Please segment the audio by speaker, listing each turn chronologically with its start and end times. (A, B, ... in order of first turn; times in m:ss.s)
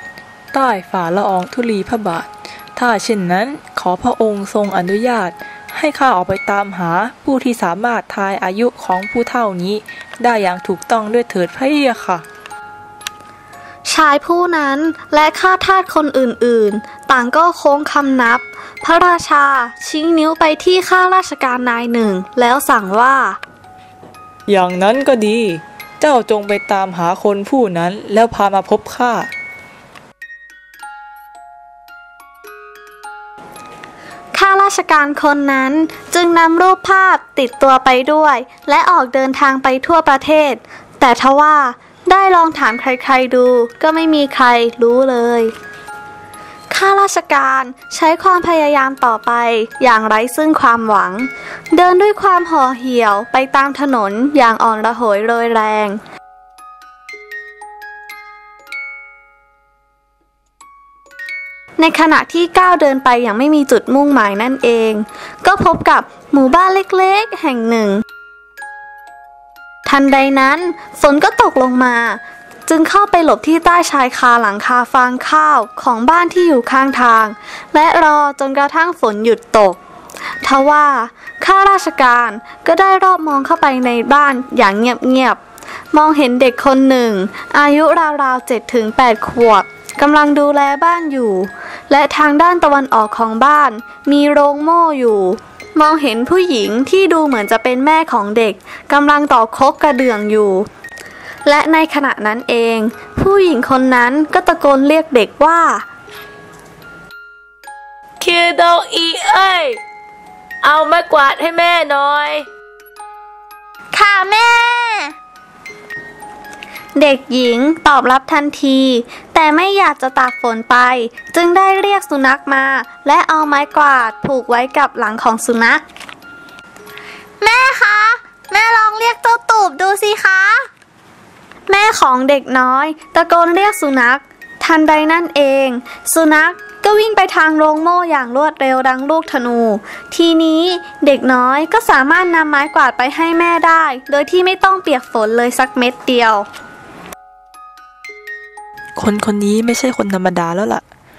0:00.5-0:12.2 A
0:13.9-0:23.4 B
0:24.5-0:29.3 A
0:34.3-0:45.5 B
0:46.7-0:56.0 B
1:01.8-1:08.0 B
1:09.8-1:19.8 B
1:20.4-1:25.4 B
1:25.9-1:40.7 B
1:41.4-1:45.9 B
1:48.2-1:49.6 C
1:50.7-1:52.3 C
1:53.9-1:55.1 B
1:57.0-2:05.8 B
2:07.4-2:10.6 B
2:11.7-2:26.5 B
2:29.0-2:30.8 A